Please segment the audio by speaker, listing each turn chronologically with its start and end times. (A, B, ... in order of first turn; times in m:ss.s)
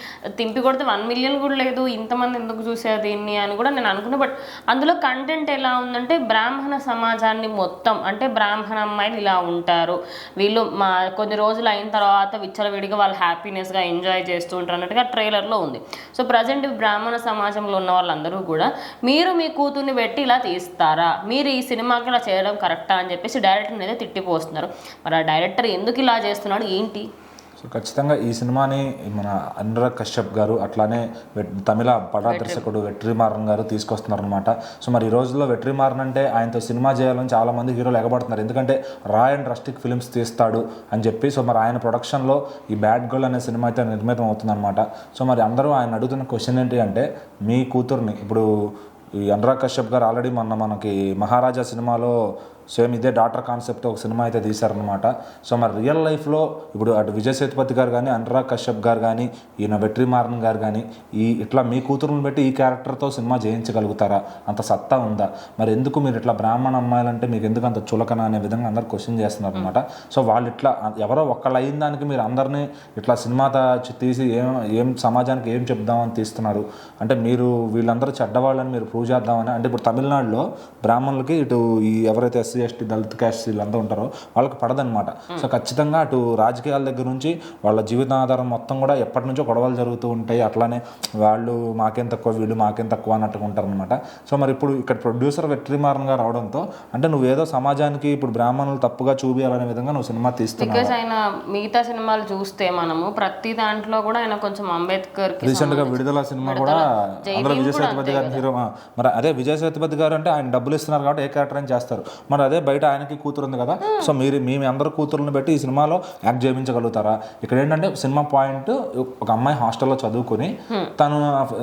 0:00.4-0:27.1 A
0:27.6-0:48.4 B
0:32.2-0:32.7 A
0:49.3-0:52.1 B
0:52.7-1:40.9 B
1:40.6-1:48.4 A
1:45.4-2:01.2 B
1:53.8-1:54.1 A